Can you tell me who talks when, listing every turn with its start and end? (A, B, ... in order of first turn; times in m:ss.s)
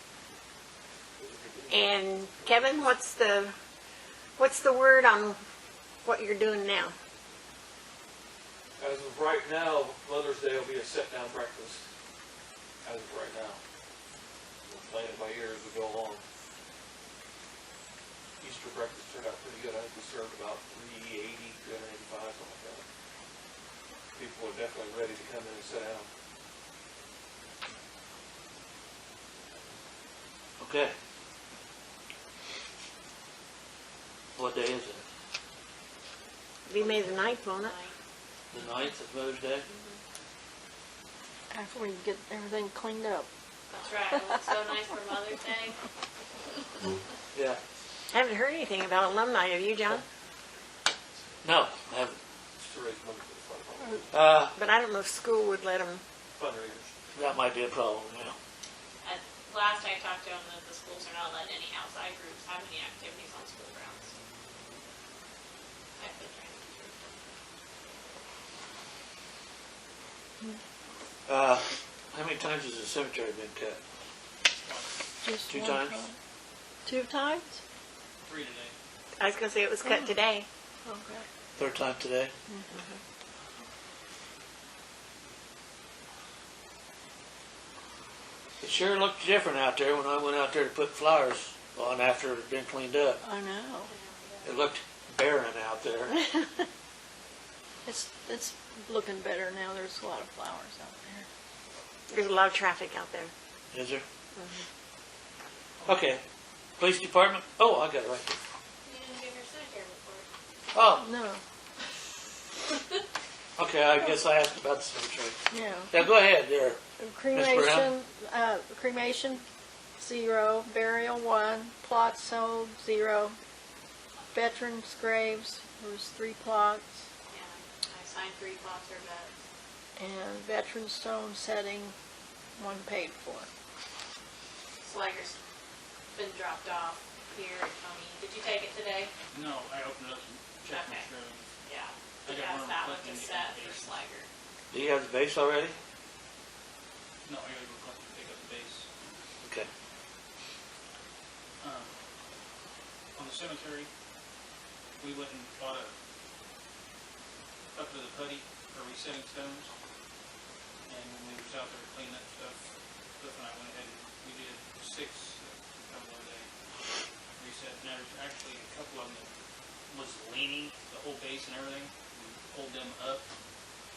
0:01.2-0:02.7 A
0:01.7-0:03.5 B
0:04.4-0:05.4 B
0:06.0-0:06.9 B
0:08.8-0:11.8 A
0:12.8-0:13.6 A
0:14.7-0:16.2 A
0:18.4-0:22.8 A
0:24.2-0:26.1 A
0:30.6-0:30.9 C
0:34.4-0:35.0 C
0:36.6-0:37.7 B
0:36.7-0:38.0 D
0:38.5-0:39.7 C
0:39.6-0:40.0 D
0:41.5-0:43.3 E
0:43.7-0:45.8 D
0:47.3-0:47.6 C
0:48.1-0:50.0 B
0:51.4-0:52.2 C
0:52.6-0:54.0 A
0:54.1-0:54.5 C
0:54.5-0:56.0 B
0:56.4-0:56.9 A
0:57.1-0:58.4 C
0:59.0-1:04.1 D
1:06.0-1:07.1 D
1:11.2-1:13.8 C
1:14.5-1:14.9 F
1:15.2-1:16.2 E
1:15.5-1:16.0 C
1:16.8-1:17.6 E
1:18.2-1:18.7 F
1:19.2-1:20.5 B
1:19.8-1:20.1 E
1:20.8-1:21.2 E
1:21.6-1:22.3 C
1:22.5-1:22.8 E
1:22.7-1:23.0 B
1:28.6-1:33.2 C
1:33.2-1:33.9 E
1:33.8-1:34.6 D
1:34.4-1:36.2 C
1:37.8-1:41.3 E
1:42.1-1:43.3 B
1:43.7-1:44.0 C
1:44.4-1:44.6 B
1:45.8-1:46.2 C
1:46.8-1:48.2 C
1:48.8-1:50.3 D
1:50.7-1:51.1 C
1:51.0-1:51.4 E
1:53.6-1:55.4 C
1:55.5-1:56.0 E
1:55.9-1:56.8 C
1:57.0-1:59.4 E
1:57.3-1:57.9 C
2:00.0-2:03.4 E
2:04.3-2:07.0 E
2:07.3-2:09.3 D
2:10.0-2:11.9 E
2:12.6-2:13.5 E
2:14.8-2:15.4 D
2:16.1-2:19.1 D
2:19.3-2:21.5 F
2:20.7-2:21.1 D
2:21.6-2:24.3 D
2:22.2-2:24.0 F
2:24.7-2:25.8 C
2:27.2-2:28.9 F
2:29.4-2:29.7 C
2:31.6-2:31.9 F
2:33.2-2:33.9 F
2:35.0-2:35.9 F
2:37.7-2:39.7 F
2:40.9-2:42.6 F
2:43.2-2:46.5 F
2:47.4-2:49.3 F
2:49.9-2:53.2 F